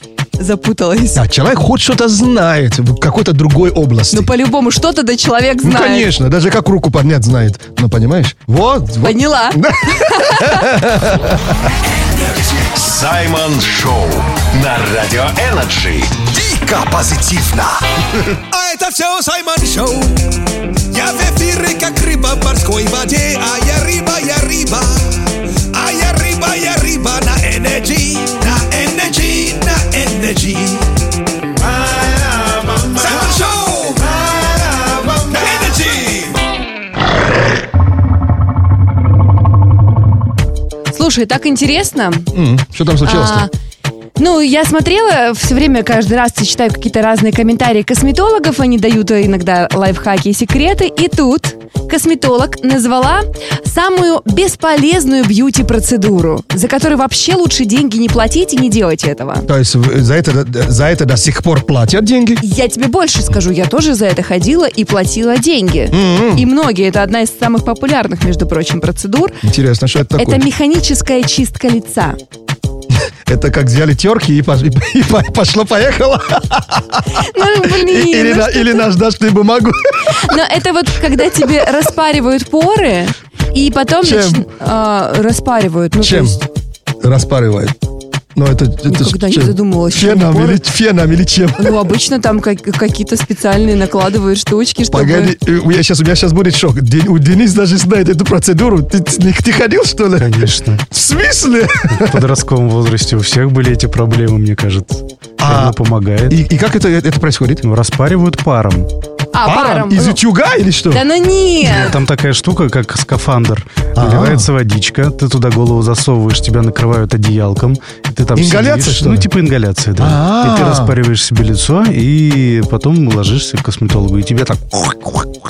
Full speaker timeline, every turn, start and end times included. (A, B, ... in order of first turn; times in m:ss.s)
0:00.4-0:01.2 A
0:01.1-0:04.3 B
0:04.1-0:06.1 A
0:05.6-0:11.6 B
0:09.0-0:10.7 A
0:12.7-0:16.3 C
0:16.2-0:17.8 D
0:18.4-0:20.3 D
0:20.9-0:30.8 D
0:31.7-0:36.3 D
0:40.9-0:42.3 A
0:42.3-0:43.5 B
0:43.0-0:43.5 A
0:44.2-0:59.5 A
0:59.5-1:02.4 B
1:02.4-1:09.4 A
1:05.9-1:06.4 B
1:09.4-1:10.4 B
1:10.2-1:12.2 A
1:13.3-1:20.3 B
1:17.1-1:18.9 A
1:20.1-1:26.4 A
1:24.0-1:24.4 B
1:26.0-1:26.4 B
1:27.0-1:27.8 B
1:28.3-1:31.8 B
1:28.9-1:30.6 A
1:31.6-1:35.3 A
1:34.9-1:42.2 B
1:40.2-1:40.8 E
1:42.0-1:46.4 E
1:45.4-1:45.8 B
1:46.3-1:47.6 B
1:47.6-1:48.9 E
1:49.3-1:50.2 A
1:49.4-1:51.0 B
1:50.9-1:52.0 A
1:51.7-2:05.3 E
1:54.0-1:54.5 B
1:58.3-1:59.3 B
2:00.0-2:00.9 B